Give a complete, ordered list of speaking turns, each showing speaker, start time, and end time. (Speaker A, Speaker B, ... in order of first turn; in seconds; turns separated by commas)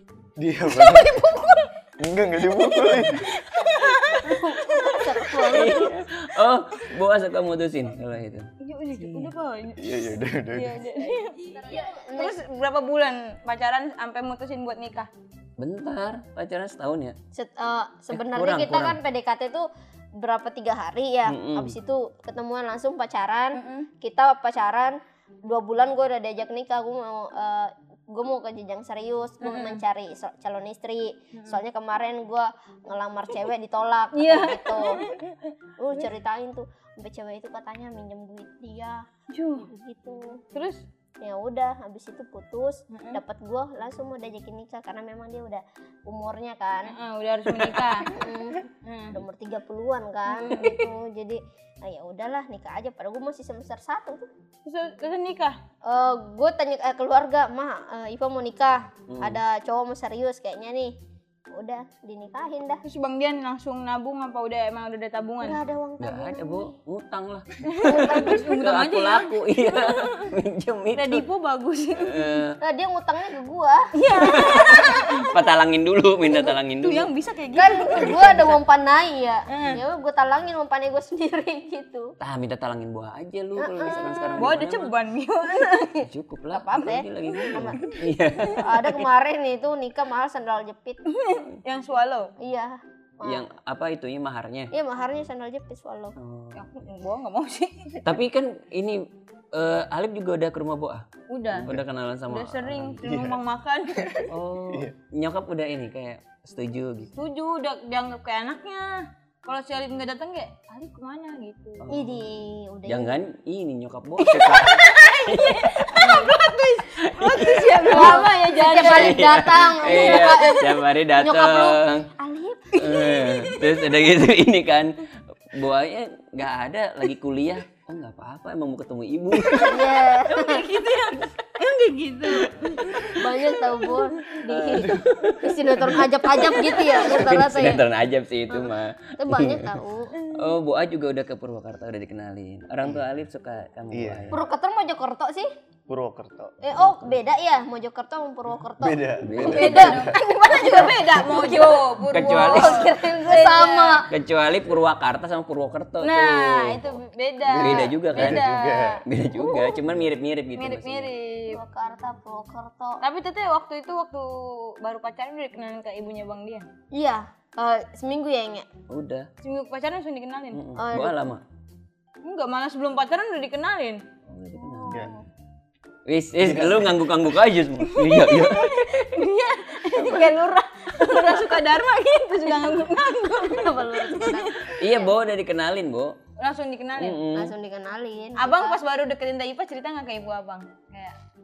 Speaker A: 0.4-1.2, Speaker B: 0.7-1.7, Speaker A: 2.0-3.3, Speaker B: 3.4-5.9, Speaker C: 4.2-5.9, Speaker D: 5.5-9.3, Speaker B: 8.6-15.1, Speaker A: 9.8-10.9, Speaker C: 11.6-12.4, Speaker D: 15.6-17.1, Speaker C: 17.3-35.0, Speaker D: 18.1-19.0, Speaker D: 21.3-21.7, Speaker B: 23.5-23.9, Speaker B: 29.4-29.8, Speaker B: 31.3-31.6, Speaker B: 34.1-35.5, Speaker C: 35.8-39.0, Speaker B: 39.3-39.7, Speaker C: 39.6-40.4, Speaker B: 40.5-40.8, Speaker C: 41.2-46.9, Speaker B: 42.9-43.2, Speaker B: 46.8-49.2, Speaker D: 47.5-48.0, Speaker C: 48.0-54.3, Speaker B: 50.3-50.9, Speaker B: 54.6-55.6, Speaker C: 55.8-60.9, Speaker D: 59.1-59.4, Speaker C: 61.5-62.8, Speaker B: 62.8-65.6, Speaker C: 65.4-66.7, Speaker D: 66.0-71.2, Speaker B: 67.6-70.3, Speaker C: 67.8-68.4, Speaker B: 70.9-72.4, Speaker D: 72.0-72.6, Speaker C: 72.6-74.4, Speaker B: 73.9-75.5, Speaker D: 74.1-77.1, Speaker B: 76.4-78.6, Speaker C: 77.5-82.1, Speaker B: 79.5-79.8, Speaker D: 82.2-84.9, Speaker C: 83.6-84.3, Speaker B: 84.4-88.6, Speaker D: 86.0-89.0, Speaker C: 86.5-87.8, Speaker C: 88.6-91.0, Speaker B: 91.1-92.3, Speaker C: 92.4-93.4, Speaker D: 93.2-94.7, Speaker C: 94.7-96.1, Speaker D: 96.2-96.7, Speaker B: 96.5-98.0, Speaker D: 98.0-103.0, Speaker B: 101.3-101.7, Speaker B: 102.3-104.3, Speaker A: 103.0-103.4, Speaker D: 104.3-107.1, Speaker B: 107.2-111.9, Speaker D: 111.8-112.2, Speaker C: 111.9-113.2, Speaker D: 112.9-116.4, Speaker B: 114.2-120.8, Speaker D: 117.0-122.1, Speaker C: 117.8-123.1, Speaker B: 122.2-123.5, Speaker D: 122.8-125.0, Speaker D: 125.5-129.9, Speaker B: 129.6-133.2, Speaker C: 129.6-130.7, Speaker D: 132.3-133.4, Speaker C: 133.1-137.8, Speaker D: 134.4-144.4, Speaker C: 138.5-140.1, Speaker B: 140.2-140.5, Speaker A: 143.9-144.3, Speaker C: 144.3-145.5, Speaker A: 145.9-146.6, Speaker C: 146.6-154.1, Speaker A: 148.8-150.2, Speaker D: 149.2-150.0, Speaker B: 149.4-154.0, Speaker D: 152.0-152.9, Speaker D: 154.1-157.0, Speaker B: 156.0-159.0, Speaker A: 157.4-159.1, Speaker D: 157.6-158.5, Speaker D: 159.0-161.1, Speaker C: 159.4-159.7, Speaker B: 160.6-161.6, Speaker C: 161.5-163.0, Speaker B: 163.0-166.7, Speaker C: 166.9-168.7, Speaker D: 168.9-169.3, Speaker B: 169.4-170.6, Speaker D: 170.5-171.4, Speaker C: 170.8-171.1, Speaker B: 172.2-174.0, Speaker D: 174.3-175.1, Speaker B: 174.5-175.2, Speaker D: 176.1-179.2, Speaker A: 176.4-177.0, Speaker B: 177.8-184.8, Speaker D: 179.9-180.3, Speaker C: 183.4-185.0, Speaker D: 184.7-186.2, Speaker B: 186.4-187.2, Speaker D: 186.9-187.5, Speaker C: 187.3-188.8, Speaker B: 188.4-191.2